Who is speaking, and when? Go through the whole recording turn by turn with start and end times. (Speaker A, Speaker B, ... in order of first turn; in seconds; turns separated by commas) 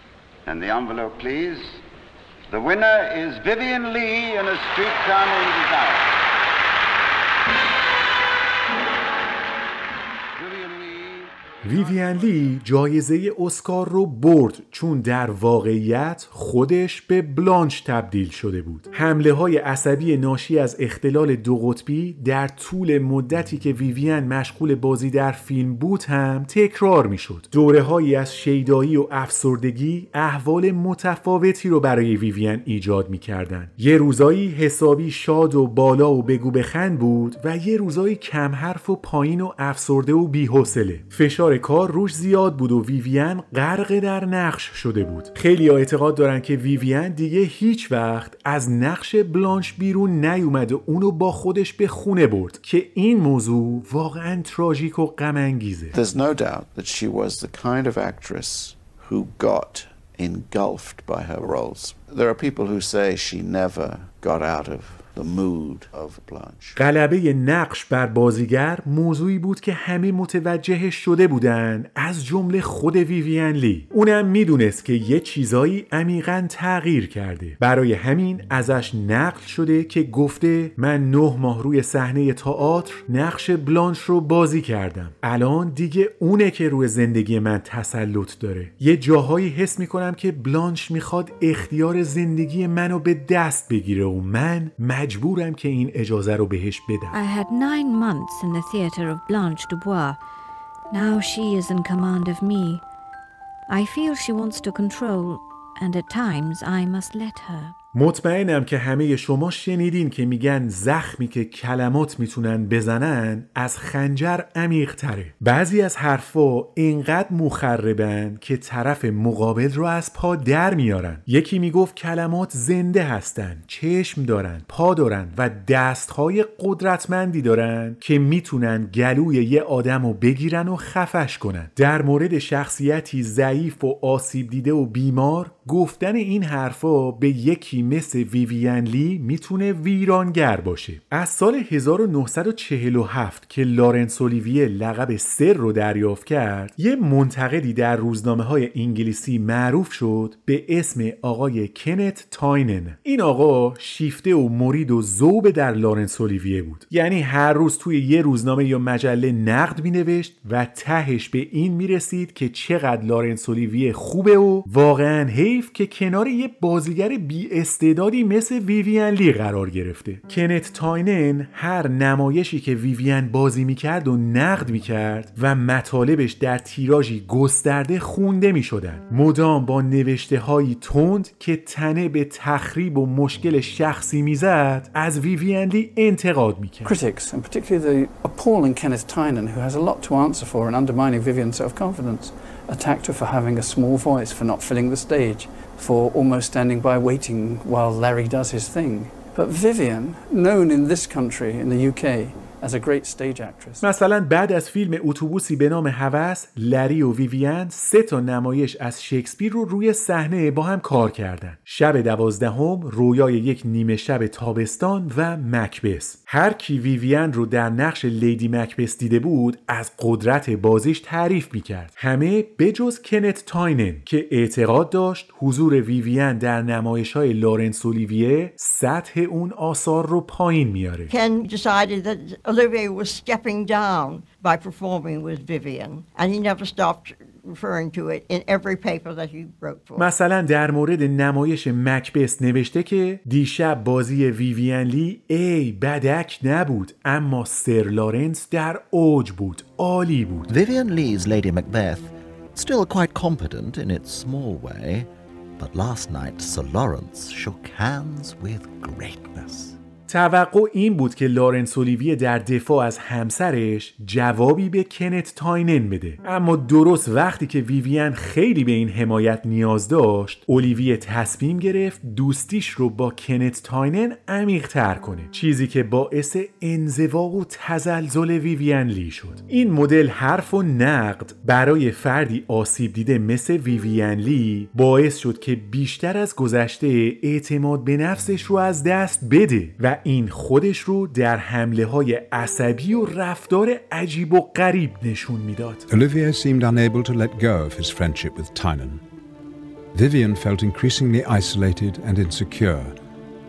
Speaker A: 0.5-1.8, Speaker A: 2.5-6.1, Speaker A: 10.4-11.3, Speaker B: 11.6-55.9, Speaker C: 55.9-66.8, Speaker B: 66.8-97.2, Speaker D: 97.1-100.2, Speaker D: 100.9-102.8, Speaker D: 103.7-107.8, Speaker B: 107.9-186.9, Speaker E: 186.8-203.8, Speaker B: 203.8-231.1, Speaker F: 231.1-240.0, Speaker B: 240.0-250.5, Speaker G: 250.5-259.8, Speaker B: 260.1-295.8, Speaker H: 295.9-299.0, Speaker H: 299.9-303.0